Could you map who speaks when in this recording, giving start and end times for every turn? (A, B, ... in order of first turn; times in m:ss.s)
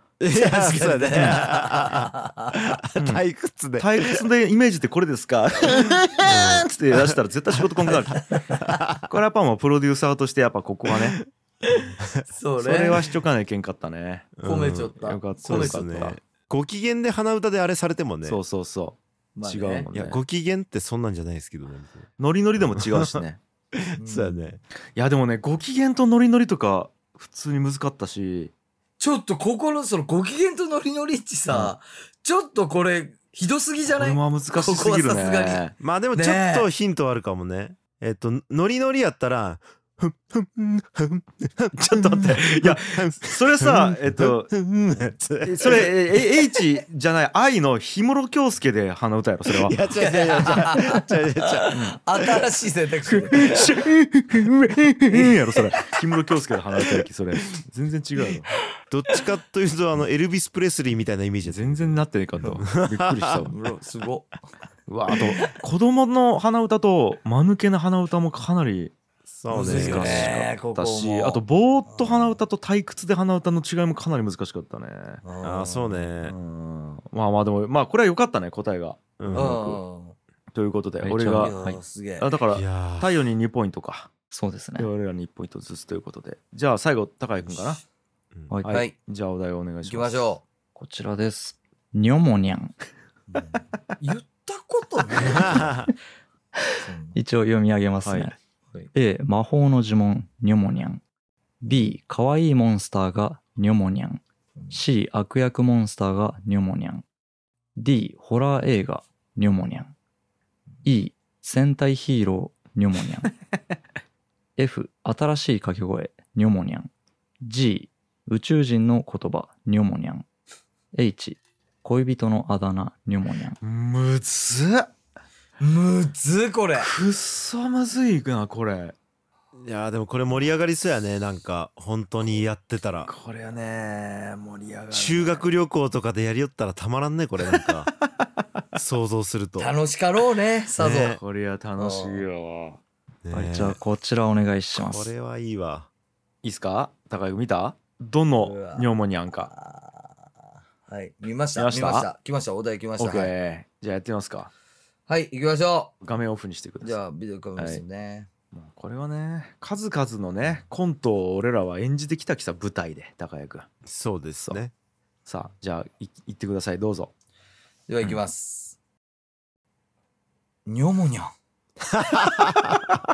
0:00.2-0:04.2 A
0:00.3-0:02.8 B
0:03.0-0:03.2 C
0:03.8-0:08.3 C
0:06.2-0:07.1 A
0:07.9-0:08.7 B
0:08.6-0:09.1 A
0:09.1-0:11.2 C
0:11.8-0:13.1 B
0:12.0-0:12.2 A
0:12.6-0:14.5 C
0:14.4-0:18.4 A
0:14.4-0:16.0 B
0:15.0-0:16.2 C
0:18.2-0:20.2 C
0:19.4-0:19.9 B
0:19.9-0:24.6 A
0:22.2-0:23.4 C
0:24.0-0:24.5 B
0:25.0-0:28.5 C
0:29.0-0:36.7 B
0:34.0-0:35.7 C
0:35.8-0:45.9 A
0:41.8-0:44.5 C
0:45.4-0:49.8 C
0:49.5-0:51.8 A
0:50.0-0:53.7 B
0:53.1-0:58.5 C
0:55.1-0:55.9 B
0:58.9-1:03.5 A
1:01.4-1:03.6 C
1:03.5-1:04.3 B
1:04.9-1:09.0 C
1:09.3-1:10.4 A
1:09.5-1:12.4 B
1:09.6-1:10.3 D
1:09.7-1:15.2 C
1:15.2-1:16.1 B
1:15.4-1:16.4 A
1:16.2-1:19.8 C
1:19.2-1:19.6 A
1:19.3-1:20.2 B
1:20.5-1:24.1 C
1:21.0-1:21.6 D
1:21.4-1:22.3 B
1:22.5-1:23.1 A
1:24.3-1:24.9 D
1:24.8-1:27.8 C
1:27.4-1:27.8 B
1:28.5-1:28.8 D
1:28.6-1:30.2 C
1:29.8-1:30.4 B
1:30.8-1:32.8 D
1:33.3-1:35.8 B
1:35.2-1:35.9 A
1:36.8-1:37.2 B
1:37.2-1:38.4 D
1:38.0-1:38.3 C
1:38.9-1:41.0 D
1:41.6-1:47.0 D
1:47.8-1:49.9 D
1:50.8-1:53.3 D
1:54.6-1:56.9 D
1:57.4-2:00.2 D
2:00.9-2:03.6 D
2:03.6-2:04.9 C
2:05.6-2:06.9 B
2:06.8-2:09.0 C
2:09.6-2:13.1 A
2:13.0-2:15.5 C
2:14.9-2:17.9 A
2:18.7-2:19.8 A
2:19.6-2:21.2 B
2:20.8-2:21.2 A
2:21.2-2:22.8 C
2:21.8-2:22.3 B
2:23.2-2:23.8 A
2:23.3-2:25.1 D
2:24.8-2:25.9 A
2:26.4-2:29.5 C
2:28.4-2:30.1 B
2:30.9-2:33.3 B
2:31.6-2:32.1 C
2:33.0-2:34.5 C
2:35.1-2:35.9 B
2:36.0-2:37.0 C
2:36.8-2:38.3 B
2:37.6-2:37.8 C
2:38.5-2:43.7 C
2:43.9-2:44.7 A
2:45.3-2:47.1 C
2:47.9-2:48.8 B
2:50.7-2:51.3 B
2:51.8-2:53.0 A